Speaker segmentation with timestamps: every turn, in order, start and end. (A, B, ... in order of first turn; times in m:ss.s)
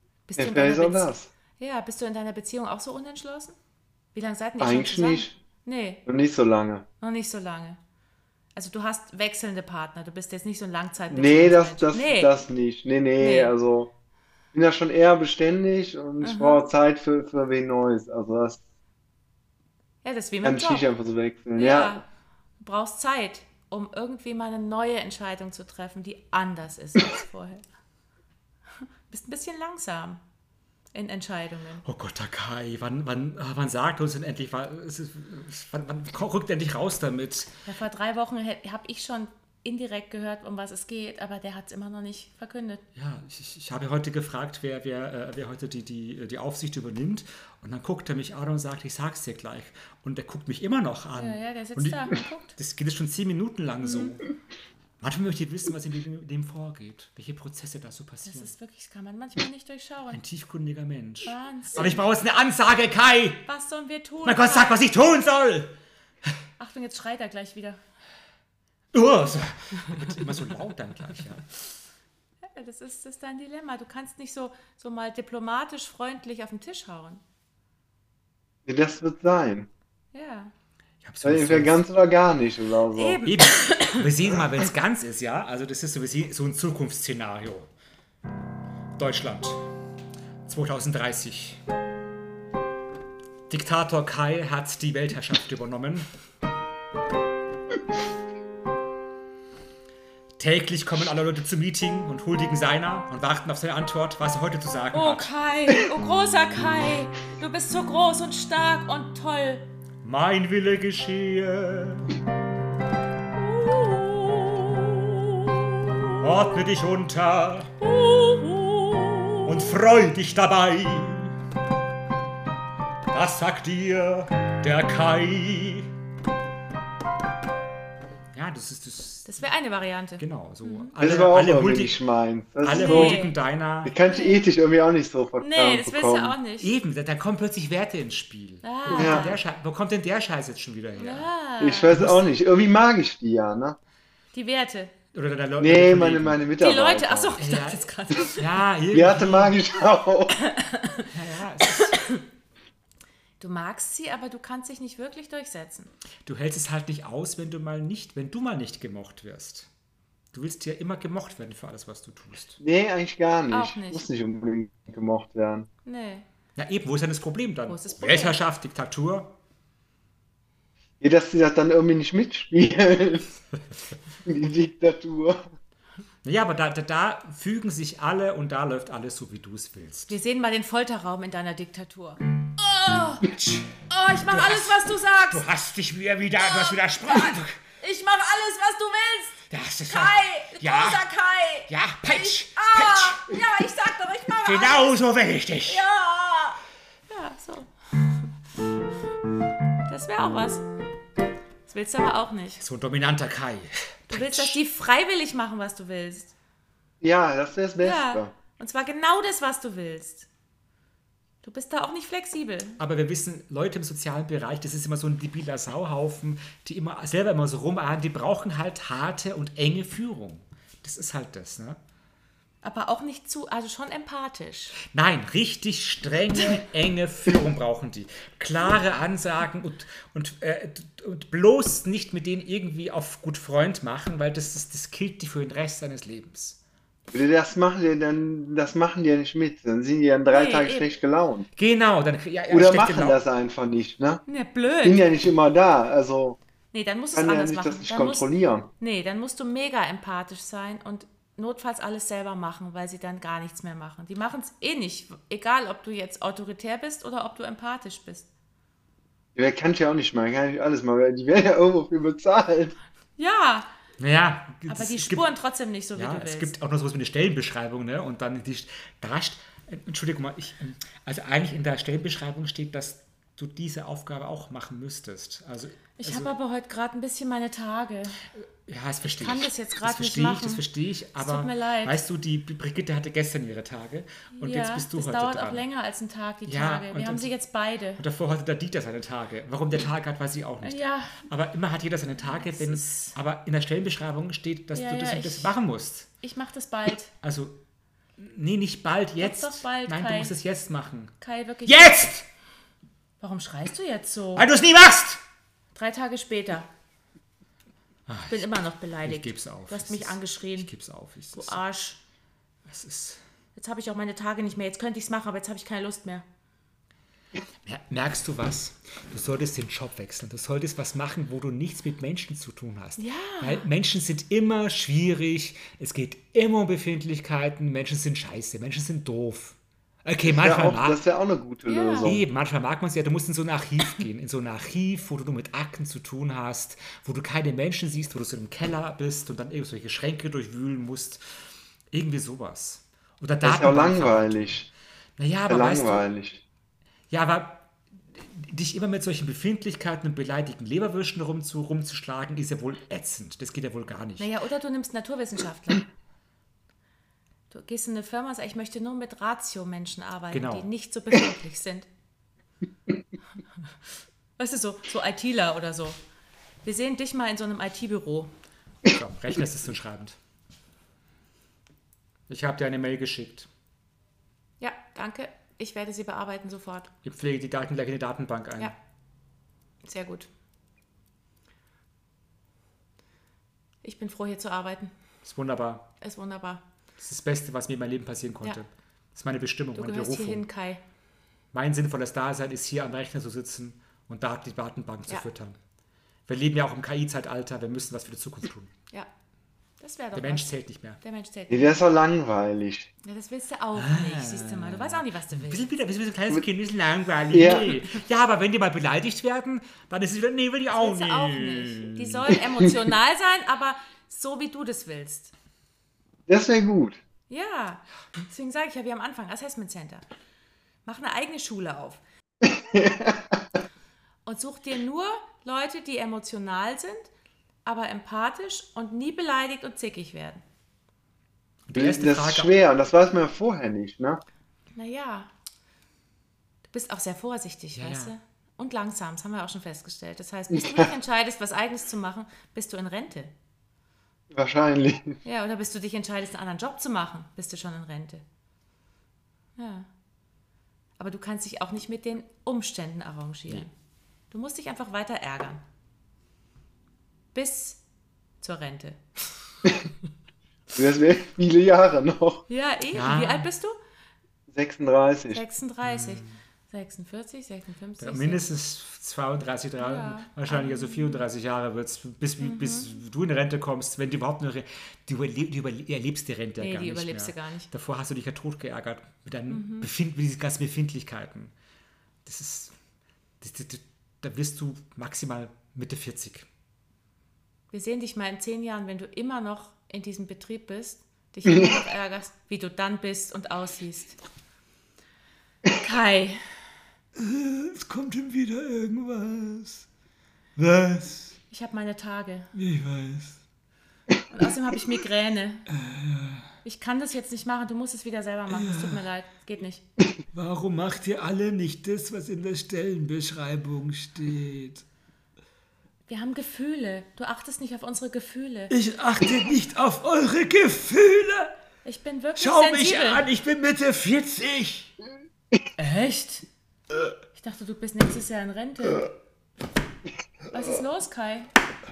0:00.3-0:03.6 A
0:00.4-0:01.3 B
0:04.2-0:06.0 A
0:04.6-0:05.3 B
0:06.1-0:06.9 B
0:07.0-0:07.8 A
0:08.6-0:12.4 A
0:11.1-0:13.9 B
0:13.2-0:13.5 A
0:14.5-0:18.6 B
0:16.2-0:16.6 A
0:20.0-0:20.9 A
0:20.4-0:22.0 B
0:21.6-0:22.0 A
0:22.6-0:27.6 A
0:29.1-0:30.2 A
0:30.9-0:31.8 A
0:31.8-0:37.5 C
0:37.7-0:42.8 A
0:43.0-0:54.3 C
0:51.2-0:52.5 A
0:53.8-0:54.2 A
0:55.0-0:58.5 C
0:58.2-1:00.2 A
1:00.1-1:03.5 C
1:01.2-1:02.0 A
1:03.5-1:04.8 A
1:04.2-1:05.7 C
1:06.6-1:07.8 A
1:08.9-1:11.5 C
1:12.4-1:17.2 A
1:18.7-1:19.7 B
1:20.1-1:20.5 A
1:21.0-1:21.8 C
1:21.2-1:23.2 B
1:23.0-1:24.1 A
1:23.2-1:27.7 C
1:29.0-1:29.6 C
1:30.5-1:31.6 C
1:33.5-1:36.1 C
1:40.4-1:45.3 C
1:44.9-1:49.7 A
1:50.0-1:52.2 C
1:53.4-1:56.2 A
1:56.2-1:57.7 C
1:57.8-1:59.5 A
1:59.4-2:01.4 C
2:03.1-2:05.9 C
2:08.3-2:09.4 C
2:09.2-2:10.9 A
2:10.2-2:12.0 C
2:11.0-2:13.2 B
2:12.6-2:14.0 C
2:12.7-2:13.4 A
2:13.8-2:16.4 B
2:14.0-2:14.5 A
2:15.4-2:16.7 A
2:16.6-2:21.3 C
2:18.6-2:19.4 A
2:18.9-2:19.3 B
2:21.0-2:22.1 A
2:21.6-2:23.8 B
2:21.9-2:22.2 C
2:24.3-2:24.9 A
2:25.1-2:26.4 C
2:25.6-2:27.4 B
2:26.6-2:28.6 A
2:27.4-2:29.6 C
2:28.9-2:30.4 B
2:30.4-2:31.1 A
2:31.0-2:32.0 C
2:31.6-2:32.2 A
2:33.4-2:35.9 A
2:36.2-2:39.7 C
2:40.3-2:42.6 C
2:42.6-2:45.7 B
2:43.5-2:44.1 A
2:45.8-2:46.3 A
2:46.6-2:49.4 C
2:47.7-2:48.4 A
2:51.0-2:53.3 B
2:54.2-2:55.5 B
2:56.2-3:00.2 C
3:00.1-3:03.3 A
3:03.2-3:07.6 C
3:03.9-3:05.4 A
3:06.4-3:15.0 A
3:09.5-3:11.1 C
3:11.7-3:13.3 C
3:14.4-3:15.9 C
3:15.7-3:18.3 A
3:19.9-3:20.6 A
3:21.7-3:22.6 A
3:22.6-3:24.6 C
3:24.1-3:26.3 A
3:27.0-3:28.3 B
3:27.8-3:30.3 A
3:31.4-3:32.8 A
3:32.8-3:41.8 C
3:42.6-3:44.8 A
3:44.9-3:56.6 C
3:57.1-4:01.5 B
4:00.3-4:00.9 A
4:01.6-4:03.2 C
4:02.5-4:04.2 B
4:04.3-4:05.1 A
4:04.8-4:06.4 B
4:06.7-4:18.3 A
4:07.1-4:08.7 B
4:19.4-4:22.8 B
4:23.2-4:23.7 A
4:24.0-4:25.3 C
4:24.7-4:26.5 A
4:26.0-4:36.3 C
4:36.0-4:38.2 A
4:38.4-4:45.7 C
4:39.1-4:40.6 A
4:41.2-4:42.0 A
4:44.4-4:48.0 A
4:46.5-4:47.3 C
4:48.0-4:56.1 C
4:50.6-4:51.2 A
4:52.3-4:53.2 A
4:54.7-4:55.5 A
4:56.2-4:57.1 A
4:57.2-4:57.6 C
4:58.2-5:02.3 C
4:59.2-5:00.3 A
5:01.2-5:02.0 A
5:03.2-5:04.5 A
5:04.4-5:05.2 C
5:05.8-5:06.7 A
5:08.1-5:11.6 C
5:08.3-5:10.7 A
5:11.3-5:12.0 A
5:12.7-5:13.2 C
5:13.6-5:16.2 A
5:17.6-5:31.0 C
5:23.0-5:23.6 A
5:30.2-5:32.2 B
5:31.7-5:32.1 A
5:32.0-5:41.2 C
5:41.9-5:44.7 C
5:43.4-5:44.7 B
5:45.2-5:46.1 C
5:45.5-5:46.4 B
5:47.1-5:54.3 C
5:54.2-5:55.9 A
5:57.5-6:01.9 A
6:00.3-6:00.7 C
6:04.4-6:06.0 A
6:06.6-6:08.3 A
6:08.8-6:10.2 C
6:12.3-6:13.5 C
6:14.6-6:16.9 A
6:17.0-6:18.7 C
6:19.8-6:20.3 A
6:23.8-6:24.9 A
6:25.2-6:25.9 C
6:26.0-6:26.6 A
6:27.0-6:30.5 C
6:29.7-6:30.8 A
6:31.5-6:35.6 C
6:36.3-6:38.7 C
6:39.8-6:40.5 A
6:40.2-6:41.0 C
6:41.0-6:41.8 A
6:41.5-6:42.9 B
6:43.0-6:45.7 A
6:43.8-6:52.4 C
6:47.3-6:47.8 B
6:50.7-6:55.3 A
6:56.3-6:57.0 B
6:57.3-7:00.0 A
7:00.8-7:02.0 A
7:02.4-7:03.6 B
7:04.3-7:07.1 A
7:07.6-7:10.4 A
7:11.7-7:12.6 C
7:11.8-7:14.2 B
7:14.8-7:15.3 A
7:16.7-7:23.3 A
7:17.8-7:18.1 C
7:24.3-7:25.2 B
7:25.2-7:28.2 A
7:29.6-7:29.9 A
7:31.0-7:33.7 A
7:34.3-7:35.6 A
7:37.3-7:37.8 A
7:38.4-7:39.0 A
7:40.7-7:42.4 B
7:42.5-7:43.8 A
7:42.9-7:43.5 C
7:44.5-7:45.4 B
7:45.3-7:48.5 A
7:45.8-7:46.4 C
7:48.0-8:01.5 C
7:49.8-7:51.2 A
7:52.4-7:53.0 A
7:56.6-7:57.7 A
7:59.5-7:59.9 A
8:02.2-8:02.7 C
8:03.4-8:06.5 C
8:07.7-8:14.2 A
8:15.7-8:16.5 A
8:17.2-8:19.9 C
8:20.6-8:21.4 C
8:21.5-8:22.5 A
8:22.5-8:23.4 C
8:24.3-8:25.7 A
8:25.7-8:26.5 C
8:26.6-8:29.8 A
8:28.5-8:29.0 C
8:30.3-8:34.8 C
8:36.1-8:38.7 A
8:38.7-8:41.5 C
8:41.8-8:43.2 A
8:42.4-8:44.9 C
8:45.8-8:46.5 A
8:47.3-8:49.1 A
8:50.5-8:51.5 A